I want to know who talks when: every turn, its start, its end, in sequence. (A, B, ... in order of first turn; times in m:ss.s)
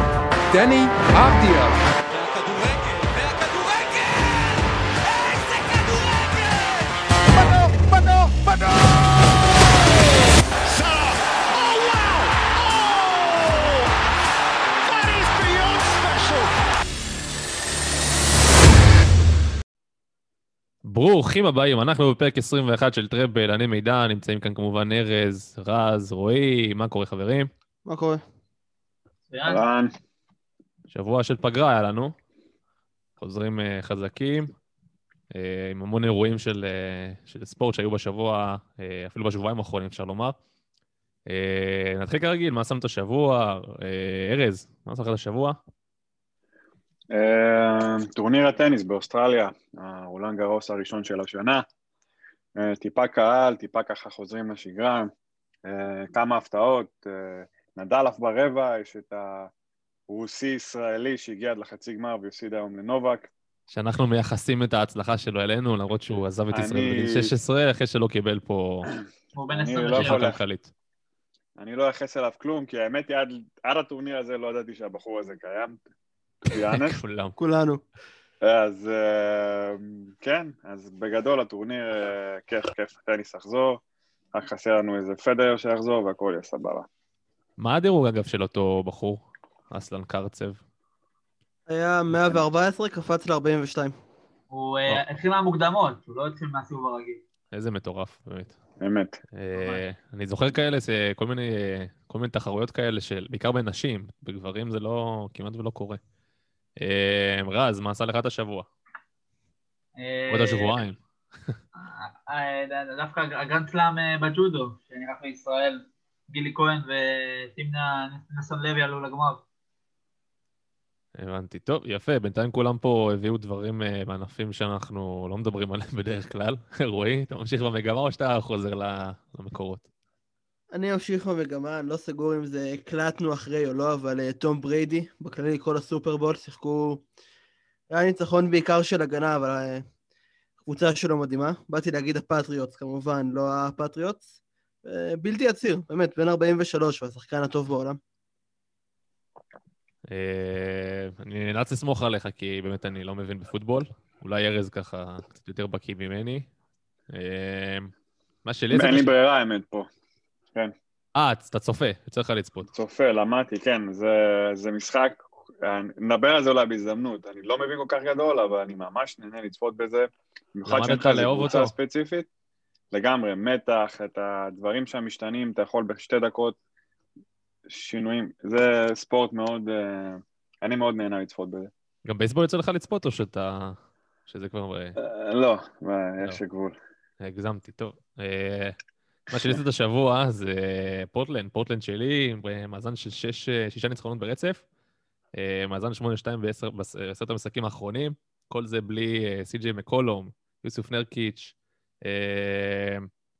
0:00.5-0:09.5 A
0:10.6-0:13.9 A
0:14.8-0:16.6 A
0:20.8-0:27.5 B
0:27.8-0:28.2 C
0:29.3-0:29.6 D
0:29.4-0:29.9 E
0:30.9-0:32.1 B
0:33.2-0:34.5 B
0:35.3-0:40.4 B
0:41.3-0:45.6 B
0:47.1-0:51.6 E
0:52.6-0:55.1 E
0:55.6-0:59.5 E
1:00.1-1:03.3 E
1:03.7-1:08.9 B
1:06.5-1:07.3 E
1:09.3-1:10.3 D
1:09.5-1:10.4 E
1:10.0-1:10.7 B
1:11.6-1:15.8 E
1:16.4-1:17.0 E
1:16.5-1:17.4 B
1:17.4-1:17.8 C
1:18.4-1:23.8 E
1:24.3-1:26.9 E
1:27.6-1:30.6 B
1:31.7-1:33.9 C
1:34.5-1:37.2 D
1:37.5-1:38.6 B
1:38.8-1:39.2 E
1:39.4-1:46.0 B
1:39.5-1:39.8 D
1:46.8-1:48.6 B
1:50.0-1:50.7 D
1:50.3-1:51.5 B
1:51.8-1:59.4 D
2:01.2-2:09.8 B
2:10.7-2:17.0 C
2:17.9-2:19.8 C
2:20.6-2:24.3 C
2:24.8-2:28.0 C
2:30.1-2:36.5 B
2:37.1-2:37.9 B
2:38.4-2:39.1 B
2:38.7-2:39.9 E
2:41.1-2:42.7 B
2:42.7-2:52.3 E
2:50.6-2:51.7 B
2:52.9-2:56.6 E
2:57.7-3:01.7 E
3:02.0-3:05.0 B
3:05.0-3:06.7 E
3:07.2-3:08.8 B
3:09.3-3:14.6 B
3:15.4-3:23.1 B